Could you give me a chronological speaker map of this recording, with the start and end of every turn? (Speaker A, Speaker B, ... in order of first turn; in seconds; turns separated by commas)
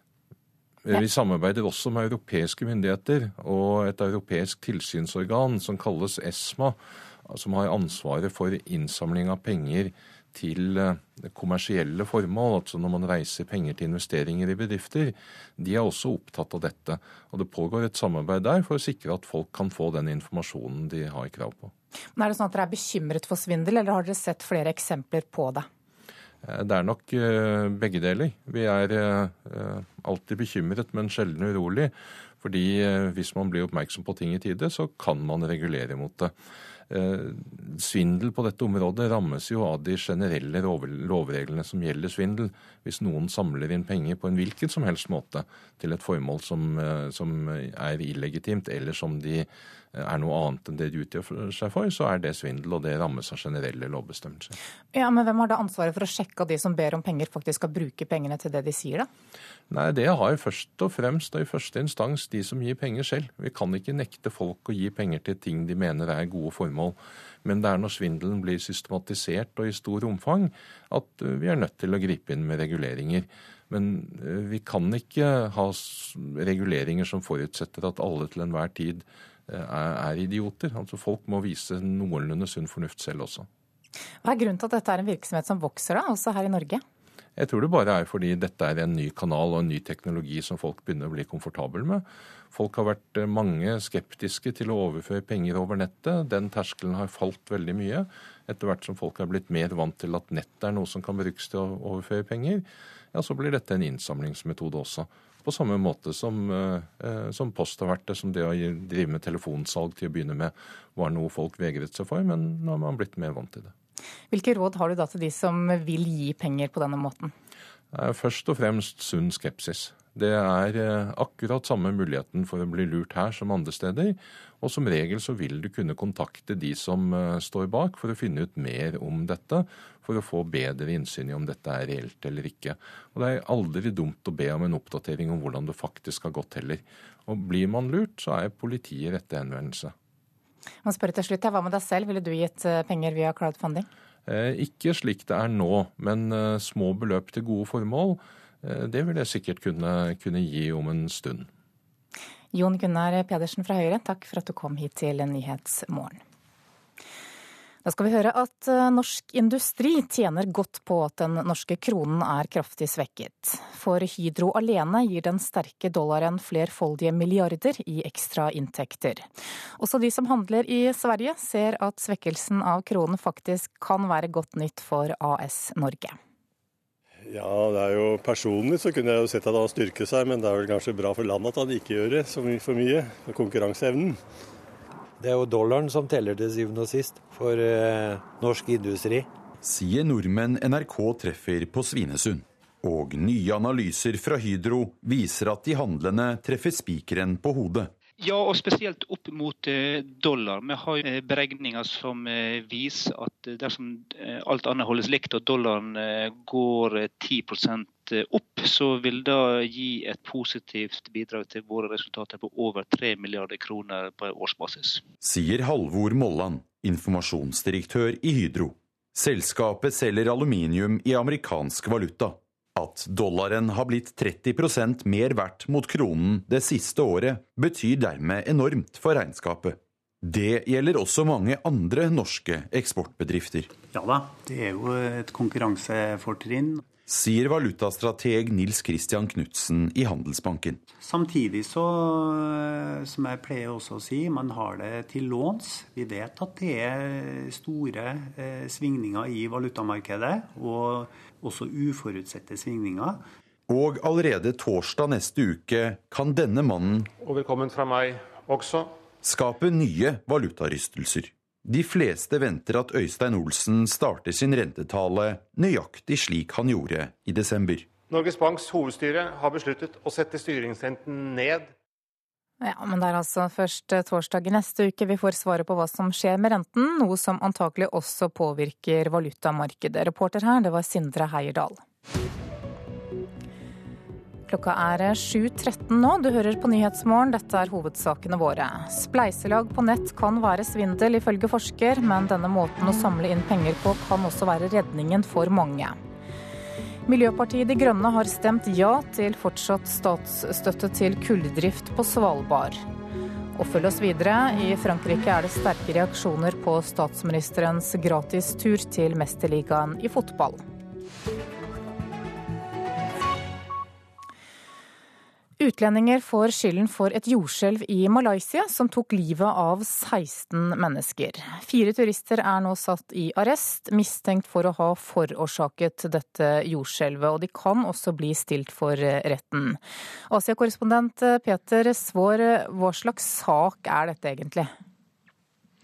Speaker A: 0.9-21.7, Speaker B: 22.1-25.7, Speaker A: 26.4-36.3, Speaker A: 36.9-54.5, Speaker B: 54.9-59.1, Speaker A: 59.7-83.5, Speaker B: 84.2-86.8, Speaker A: 87.4-113.7, Speaker B: 114.3-117.3, Speaker A: 117.9-139.9, Speaker B: 140.8-143.9, Speaker A: 144.3-151.5, Speaker B: 152.5-156.2, Speaker B: 157.8-169.3, Speaker B: 169.8-176.2, Speaker C: 177.2-184.2, Speaker D: 185.2-189.3, Speaker E: 189.6-197.9, Speaker F: 198.2-215.0, Speaker E: 215.2-233.8, Speaker G: 233.9-236.8, Speaker E: 237.1-240.8, Speaker G: 240.9-253.2, Speaker E: 253.7-257.1, Speaker H: 257.2-258.9, Speaker E: 259.2-267.9, Speaker H: 268.1-271.7, Speaker B: 272.6-281.8, Speaker B: 284.5-296.0, Speaker B: 297.1-302.8, Speaker B: 303.5-310.6, Speaker B: 315.6-334.7